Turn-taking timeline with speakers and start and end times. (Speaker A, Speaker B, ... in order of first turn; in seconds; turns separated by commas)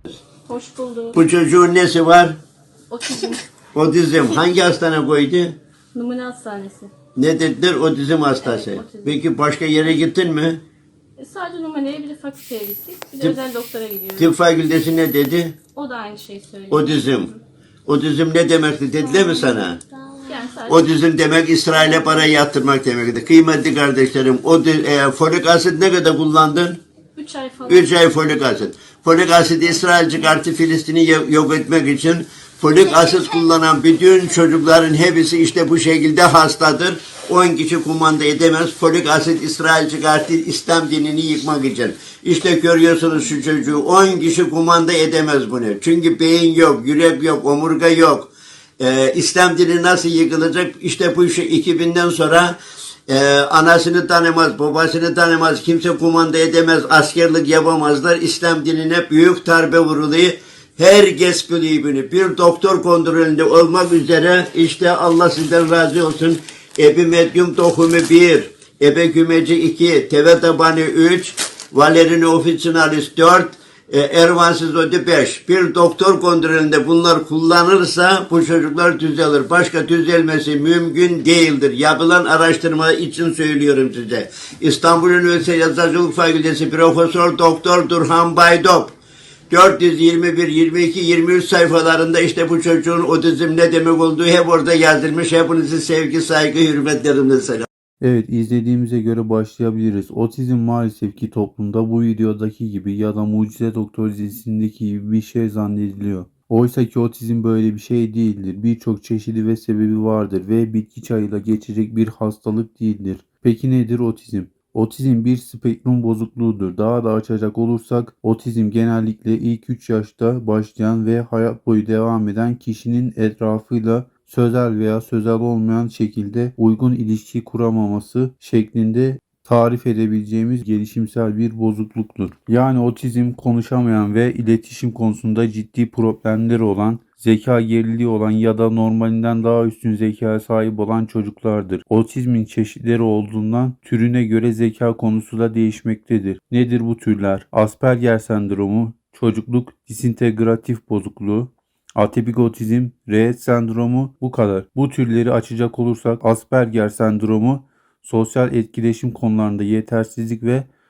Speaker A: 0.5-1.2, Speaker B: 1.1-2.4, Speaker A: 2.9-3.4, Speaker B: 3.7-5.5, Speaker A: 5.9-6.9, Speaker B: 7.1-10.6, Speaker A: 8.4-9.2, Speaker A: 11.2-14.3, Speaker B: 14.2-15.6, Speaker A: 15.7-17.4, Speaker B: 16.7-17.3, Speaker B: 17.9-19.8, Speaker A: 19.4-19.7, Speaker A: 20.2-20.9, Speaker B: 20.7-26.8, Speaker A: 21.8-22.3, Speaker A: 27.1-27.9, Speaker B: 27.7-52.6, Speaker B: 53.1-88.9, Speaker B: 89.5-97.7, Speaker C: 98.0-160.7